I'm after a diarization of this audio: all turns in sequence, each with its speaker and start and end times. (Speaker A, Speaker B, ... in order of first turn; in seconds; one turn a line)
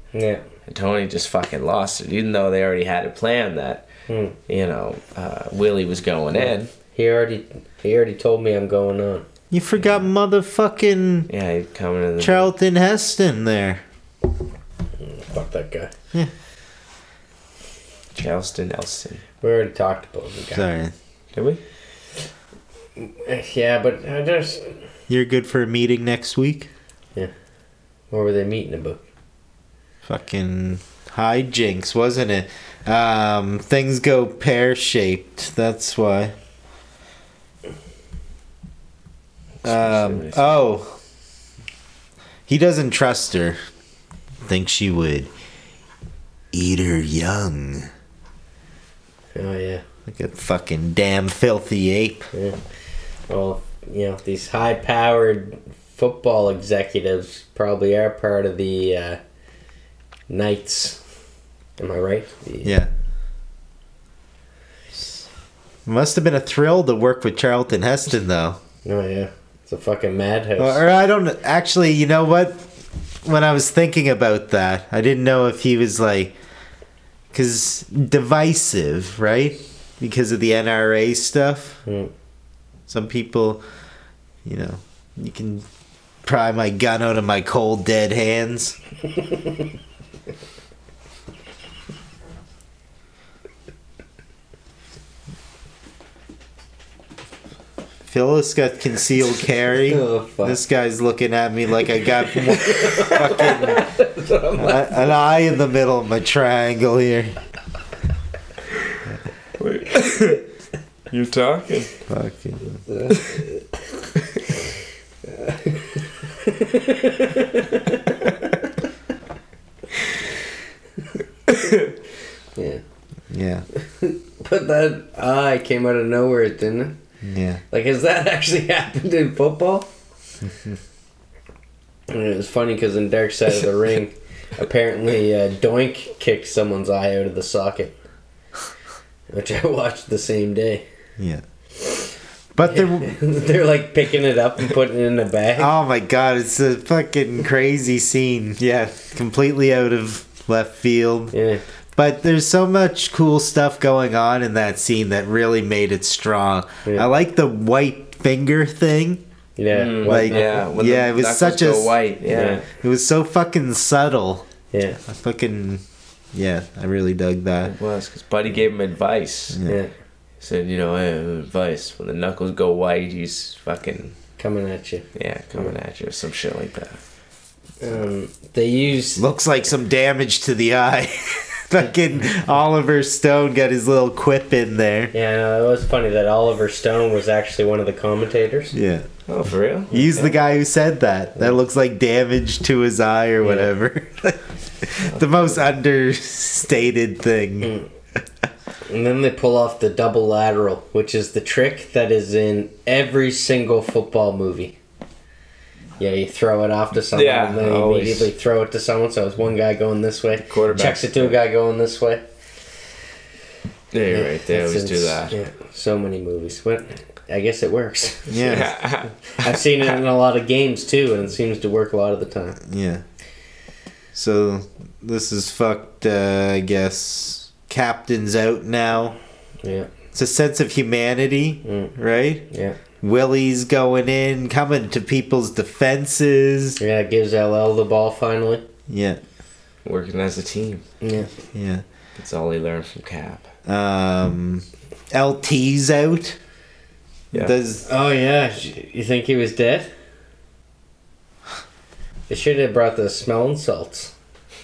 Speaker A: 0.1-0.4
Speaker B: 0.7-3.9
Speaker A: 4.1-4.3
Speaker B: 4.5-6.7
Speaker A: 6.3-9.2
Speaker C: 9.5-11.3
Speaker B: 11.3-12.5
Speaker C: 12.2-13.8
Speaker A: 15.0-15.9
Speaker B: 18.1-19.2
Speaker A: 19.4-20.6
Speaker C: 20.5-20.9
Speaker B: 21.3-21.6
Speaker A: 23.0-24.7
Speaker C: 25.1-26.7
Speaker A: 28.1-29.0
Speaker C: 30.0-36.3
Speaker B: 39.6-40.6
Speaker C: 39.6-41.0
Speaker C: 42.5-43.6
Speaker C: 44.4-45.3
Speaker C: 46.5-47.9
Speaker A: 49.3-49.8
Speaker C: 50.1-52.3
Speaker A: 52.3-52.6
Speaker A: 53.3-59.2
Speaker A: 60.3-61.0
Speaker A: 61.8-62.8
Speaker C: 62.6-62.9
Speaker C: 65.8-68.6
Speaker A: 68.8-70.8
Speaker C: 70.6-72.7
Speaker C: 73.2-76.3
Speaker C: 77.3-81.8
Speaker A: 81.8-82.1
Speaker C: 82.9-83.6
Speaker C: 84.4-85.6
Speaker C: 86.2-88.8
Speaker C: 98.1-103.9
Speaker A: 99.7-100.6
Speaker A: 102.5-105.0
Speaker C: 104.5-107.3
Speaker B: 109.6-110.4
Speaker B: 111.1-111.9
Speaker C: 112.1-112.8
Speaker A: 112.9-113.6
Speaker A: 115.3-118.1
Speaker A: 122.5-122.8
Speaker C: 123.3-123.7
Speaker A: 123.8-127.0
Speaker C: 127.2-127.6
Speaker A: 127.7-129.9
Speaker A: 132.1-138.0
Speaker A: 139.3-140.8
Speaker C: 141.2-141.4
Speaker C: 142.5-143.2
Speaker A: 142.6-145.7
Speaker C: 145.6-151.3
Speaker A: 151.3-151.6
Speaker C: 151.9-159.2
Speaker A: 159.6-160.6
Speaker B: 159.7-162.6
Speaker C: 160.0-162.0
Speaker A: 162.3-162.6
Speaker C: 162.7-164.4
Speaker A: 164.7-165.0
Speaker C: 165.0-167.7
Speaker B: 167.6-169.6
Speaker C: 169.5-169.8
Speaker A: 169.7-169.9
Speaker B: 170.4-174.2
Speaker A: 174.4-175.1
Speaker B: 175.2-177.0
Speaker A: 177.8-179.2
Speaker C: 179.2-185.1
Speaker A: 185.1-188.7
Speaker C: 188.7-189.1
Speaker B: 189.3-190.1
Speaker C: 189.9-197.8
Speaker A: 189.9-190.2
Speaker A: 193.4-193.7
Speaker A: 197.6-197.9
Speaker A: 198.9-204.8
Speaker A: 206.0-212.2
Speaker B: 207.1-208.3
Speaker B: 210.4-211.4
Speaker B: 213.9-215.3
Speaker A: 214.1-218.6
Speaker C: 218.3-218.7
Speaker B: 218.3-219.4
Speaker A: 219.4-222.6
Speaker C: 222.7-223.0
Speaker C: 224.1-229.2
Speaker A: 229.6-229.9
Speaker C: 230.1-232.5
Speaker A: 231.6-231.9
Speaker A: 232.5-232.8
Speaker C: 233.0-236.8
Speaker A: 236.8-238.6
Speaker C: 238.9-239.2
Speaker B: 239.8-240.8
Speaker A: 241.0-241.3
Speaker C: 241.5-241.8
Speaker B: 242.2-243.5
Speaker C: 243.7-246.4
Speaker C: 247.3-247.8
Speaker A: 247.8-249.9
Speaker A: 252.3-254.1